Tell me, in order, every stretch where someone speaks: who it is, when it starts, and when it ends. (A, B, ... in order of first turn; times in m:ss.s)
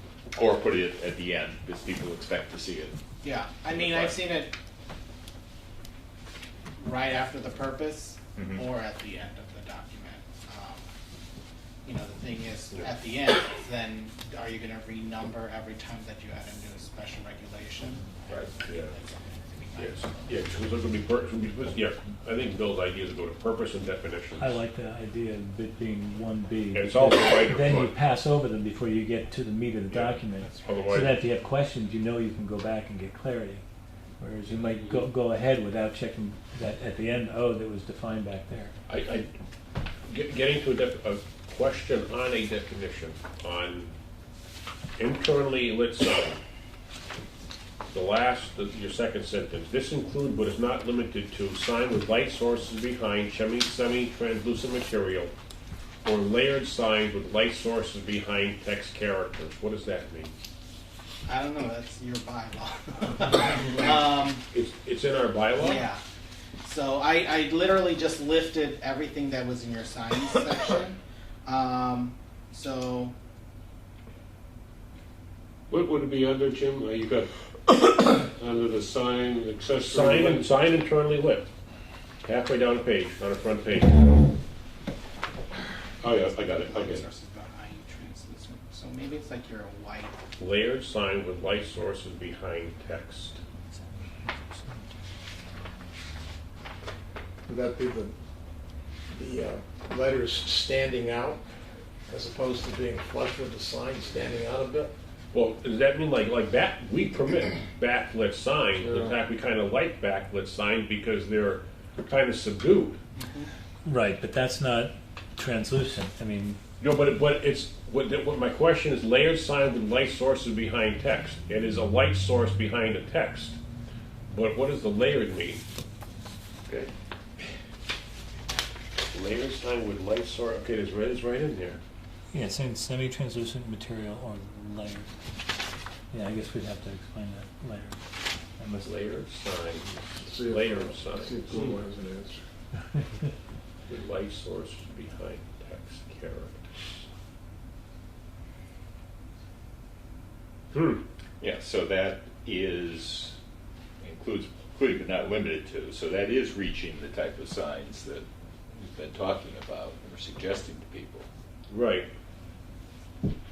0:00.3-0:03.0 A
0:03.2-0:04.5 B
0:03.7-0:04.2 A
0:06.8-0:10.8 B
0:08.4-0:08.6 A
0:11.8-0:20.1 B
0:18.7-0:18.9 C
0:19.8-0:24.6 C
0:24.4-0:33.6 D
0:26.7-0:27.9 C
0:29.9-0:31.2 C
0:34.2-0:38.7 D
0:38.9-0:39.3 C
0:40.1-0:43.9 C
0:45.0-0:46.4 C
0:47.9-0:55.3 C
0:56.0-1:00.3 C
1:01.2-1:04.4 B
1:04.5-1:05.8 C
1:05.6-1:06.0 B
1:06.6-1:13.1 B
1:15.7-1:20.5 E
1:19.7-1:21.5 C
1:22.2-1:24.0 C
1:26.0-1:27.0 E
1:26.0-1:30.1 B
1:30.4-1:33.4 C
1:37.5-1:38.1 F
1:39.1-1:41.4 F
1:42.1-1:44.9 F
1:45.3-1:53.0 C
1:48.8-1:49.2 F
1:53.2-1:53.5 B
1:53.8-1:56.6 D
1:56.8-2:03.6 C
2:04.3-2:05.6 C
2:09.1-2:11.8 C
2:12.3-2:15.1 D
2:16.1-2:18.0 D
2:18.6-2:19.1 D
2:18.8-2:21.7 C
2:20.2-2:22.4 F
2:23.9-2:26.7 C
2:30.7-2:31.0 C
2:31.4-2:33.4 A
2:34.0-2:41.3 A
2:41.7-2:42.1 C